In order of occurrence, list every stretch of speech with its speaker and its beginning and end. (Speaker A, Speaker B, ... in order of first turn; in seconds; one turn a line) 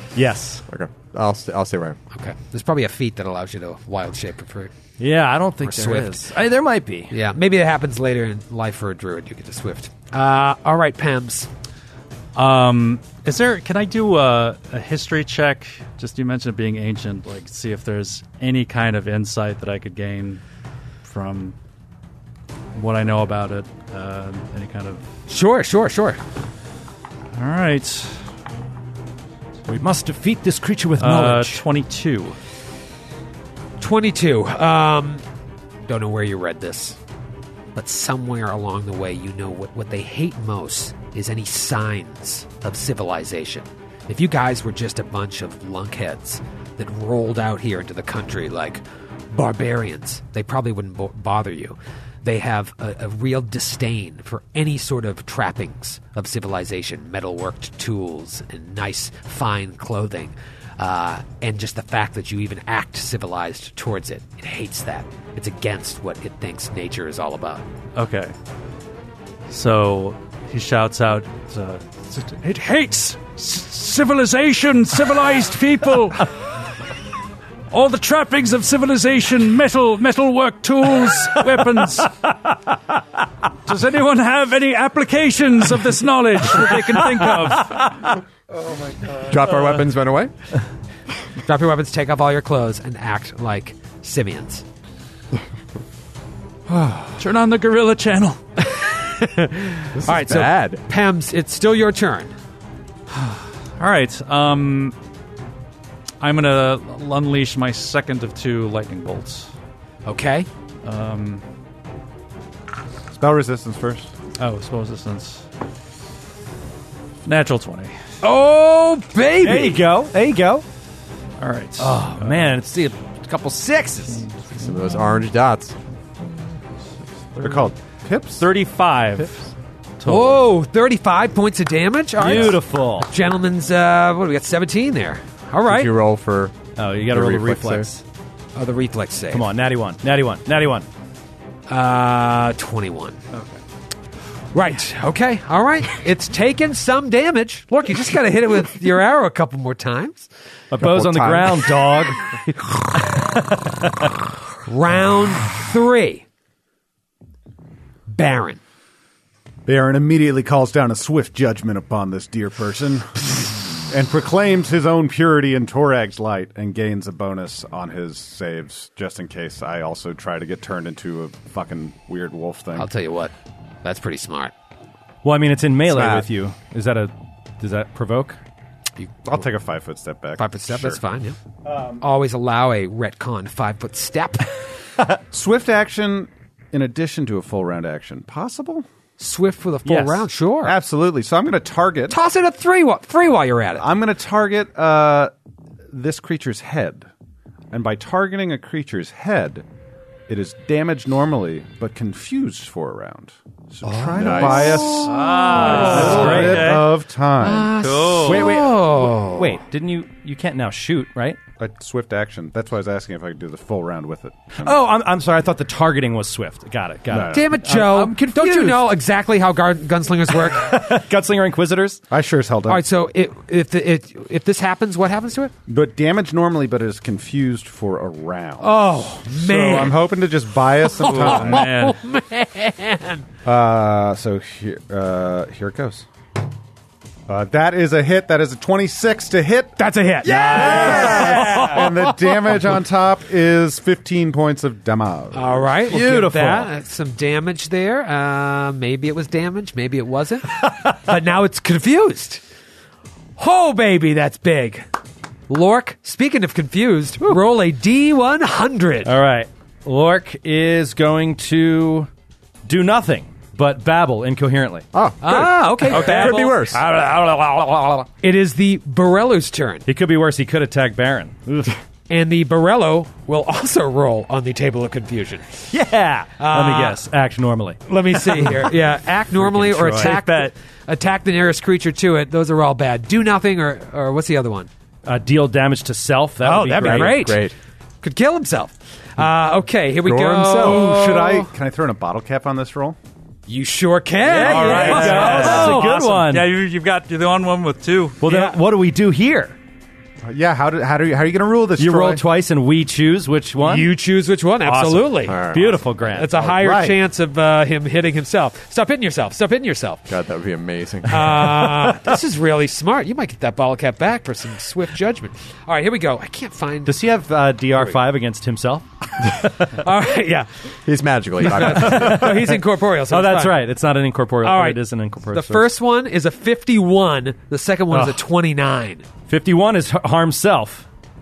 Speaker A: 0.1-0.6
Speaker B: 0.7-2.0
Speaker C: 2.1-4.7
Speaker A: 5.0-7.1
Speaker C: 5.6-6.3
Speaker C: 7.1-11.5
Speaker D: 12.3-20.4
Speaker D: 21.0-21.5
Speaker D: 22.7-25.0
Speaker C: 25.3-26.2
Speaker D: 27.3-28.2
Speaker A: 29.7-31.6
Speaker D: 31.0-32.4
Speaker C: 33.8-35.2
Speaker C: 35.9-37.0
Speaker C: 37.7-67.7
Speaker D: 67.9-68.3
Speaker D: 69.5-76.3
Speaker D: 77.7-82.2
Speaker D: 83.7-87.9
Speaker B: 89.1-90.3
Speaker C: 91.4-94.6
Speaker D: 97.2-98.4
Speaker C: 98.6-102.3
Speaker B: 99.9-100.8
Speaker D: 103.1-104.9
Speaker D: 106.2-109.5
Speaker C: 110.0-110.5
Speaker D: 110.8-111.4
Speaker E: 113.1-114.1
Speaker D: 114.4-115.4
Speaker D: 117.2-118.0
Speaker C: 118.2-119.8
Speaker A: 119.4-120.6
Speaker D: 121.4-122.6
Speaker A: 121.8-124.2
Speaker D: 124.0-125.2
Speaker B: 124.6-125.7
Speaker D: 127.2-127.7
Speaker E: 127.4-128.5
Speaker D: 128.3-130.5
Speaker C: 130.0-135.9
Speaker A: 132.2-133.1
Speaker B: 135.7-136.6
Speaker A: 136.8-138.0
Speaker B: 137.1-137.9
Speaker C: 138.5-139.5
Speaker A: 139.3-140.9
Speaker C: 141.7-143.2
Speaker D: 143.3-143.6
Speaker C: 144.5-150.3
Speaker A: 150.7-152.3
Speaker B: 150.8-152.0
Speaker C: 152.4-153.3
Speaker A: 153.1-153.4
Speaker C: 154.6-156.2
Speaker C: 158.1-158.6
Speaker E: 159.7-172.9
Speaker C: 172.7-173.3
Speaker C: 173.8-174.5
Speaker A: 175.2-178.4
Speaker B: 175.9-176.3
Speaker E: 179.2-181.0
Speaker C: 180.4-181.4
Speaker E: 181.6-182.0
Speaker C: 182.0-184.5
Speaker E: 185.3-188.8
Speaker C: 189.2-190.8
Speaker A: 189.8-190.2
Speaker E: 190.6-192.2
Speaker C: 192.1-193.8
Speaker E: 193.8-195.3
Speaker E: 195.9-197.1
Speaker E: 197.7-199.6
Speaker E: 200.3-207.8
Speaker B: 204.2-205.0
Speaker C: 204.3-206.8
Speaker D: 205.0-206.9
Speaker A: 205.3-206.8
Speaker C: 207.4-209.6
Speaker D: 207.8-208.6
Speaker A: 208.2-211.4
Speaker E: 211.6-214.8
Speaker A: 214.6-218.8
Speaker E: 217.1-217.5
Speaker C: 217.3-221.0
Speaker A: 220.4-222.0
Speaker E: 222.1-222.8
Speaker C: 222.7-225.5
Speaker E: 225.7-231.7
Speaker C: 228.6-230.1
Speaker C: 230.8-233.2
Speaker D: 231.0-232.0
Speaker E: 233.4-236.1
Speaker E: 237.3-245.7
Speaker C: 239.8-242.7
Speaker A: 240.2-241.9
Speaker C: 245.3-252.4
Speaker A: 245.9-246.7
Speaker A: 250.6-251.0
Speaker C: 253.4-254.9
Speaker C: 255.5-259.1
Speaker A: 259.0-262.1
Speaker A: 262.6-264.9
Speaker B: 264.9-266.8
Speaker C: 265.2-266.7
Speaker A: 265.9-268.1
Speaker C: 268.2-269.8
Speaker A: 269.9-271.7
Speaker C: 272.1-275.7
Speaker A: 275.7-278.7
Speaker C: 276.4-277.0
Speaker C: 277.9-284.7
Speaker A: 279.3-280.2
Speaker D: 280.0-280.5
Speaker A: 285.0-287.3
Speaker C: 286.4-287.5
Speaker B: 286.8-287.5
Speaker C: 288.0-291.5
Speaker B: 290.0-290.9
Speaker E: 290.4-293.0
Speaker C: 293.5-295.9
Speaker A: 294.2-296.5
Speaker D: 294.3-298.2
Speaker A: 298.2-299.6
Speaker C: 298.2-298.6
Speaker E: 300.2-302.2
Speaker A: 301.8-303.9
Speaker C: 303.6-305.4
Speaker D: 304.6-305.3
Speaker B: 305.2-305.8
Speaker A: 305.5-306.3
Speaker C: 306.0-310.1
Speaker E: 306.3-307.0
Speaker B: 310.1-311.8
Speaker C: 311.1-317.0
Speaker A: 316.9-319.5
Speaker C: 319.4-320.7
Speaker B: 320.9-322.4
Speaker C: 321.4-323.6
Speaker A: 321.4-325.7
Speaker C: 324.4-329.0
Speaker A: 327.9-328.2
Speaker A: 329.3-330.9